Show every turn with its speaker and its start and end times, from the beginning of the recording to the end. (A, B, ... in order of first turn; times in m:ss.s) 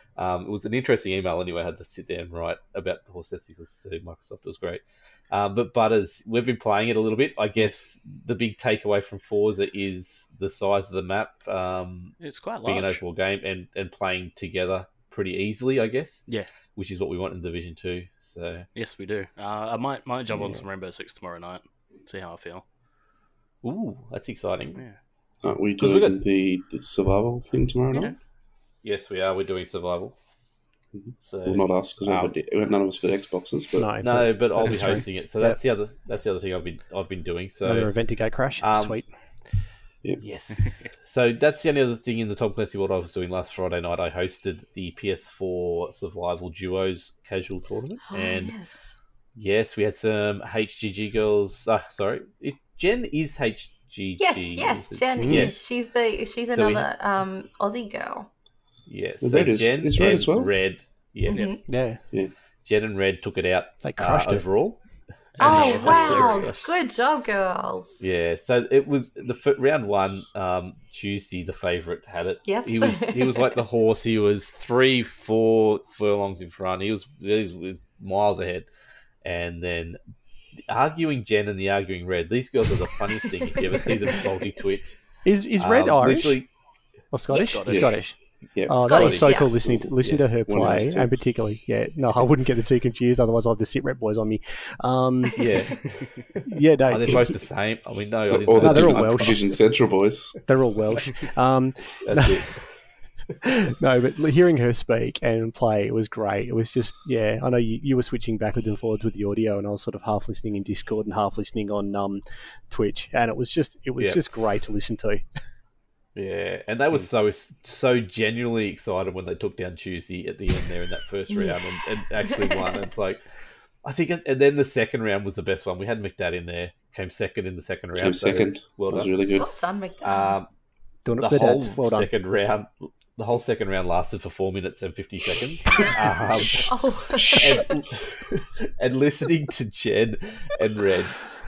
0:00.2-0:18.7 A
0:12.2-0:13.0 B
0:18.7-0:22.6 B
0:20.3-0:20.6 A
0:23.6-0:24.8 A
0:25.4-0:28.2 C
0:25.8-0:26.2 A
0:28.8-0:30.1 A
0:30.9-0:33.9 C
0:31.2-0:32.3 A
0:33.7-0:35.6 D
0:34.0-0:37.9 A
0:37.6-0:39.1 D
0:38.6-0:39.0 A
0:40.2-0:48.5 A
0:48.1-0:48.9 E
0:49.3-0:55.6 A
0:54.2-0:58.3 E
0:55.2-0:55.5 D
0:56.5-0:56.9 A
0:58.9-1:01.6 A
0:59.2-1:00.5 C
1:01.3-1:01.6 E
1:01.7-1:02.0 D
1:02.6-1:04.8 A
1:03.8-1:04.4 D
1:05.4-1:06.8 B
1:05.4-1:06.5 A
1:05.4-1:08.0 E
1:08.0-1:18.7 A
1:12.4-1:13.6 E
1:19.2-1:20.0 A
1:20.7-1:25.0 A
1:25.2-1:26.4 D
1:25.6-1:26.5 A
1:27.1-1:35.5 D
1:27.3-1:28.0 B
1:27.7-1:31.1 C
1:28.8-1:29.5 E
1:29.0-1:29.2 A
1:35.4-1:39.4 A
1:36.4-1:37.4 D
1:38.3-1:40.4 C
1:38.5-1:39.4 D
1:40.5-1:42.4 D
1:42.0-1:42.6 A
1:43.4-1:55.2 D
1:56.2-2:03.2 A
2:01.3-2:01.6 E
2:02.2-2:02.8 E
2:03.8-2:09.1 A
2:07.9-2:09.5 C
2:09.4-2:10.4 E
2:10.0-2:10.5 A
2:11.0-2:12.1 D
2:11.2-2:16.7 A
2:16.4-2:17.7 C
2:16.5-2:17.7 E
2:17.3-2:21.2 A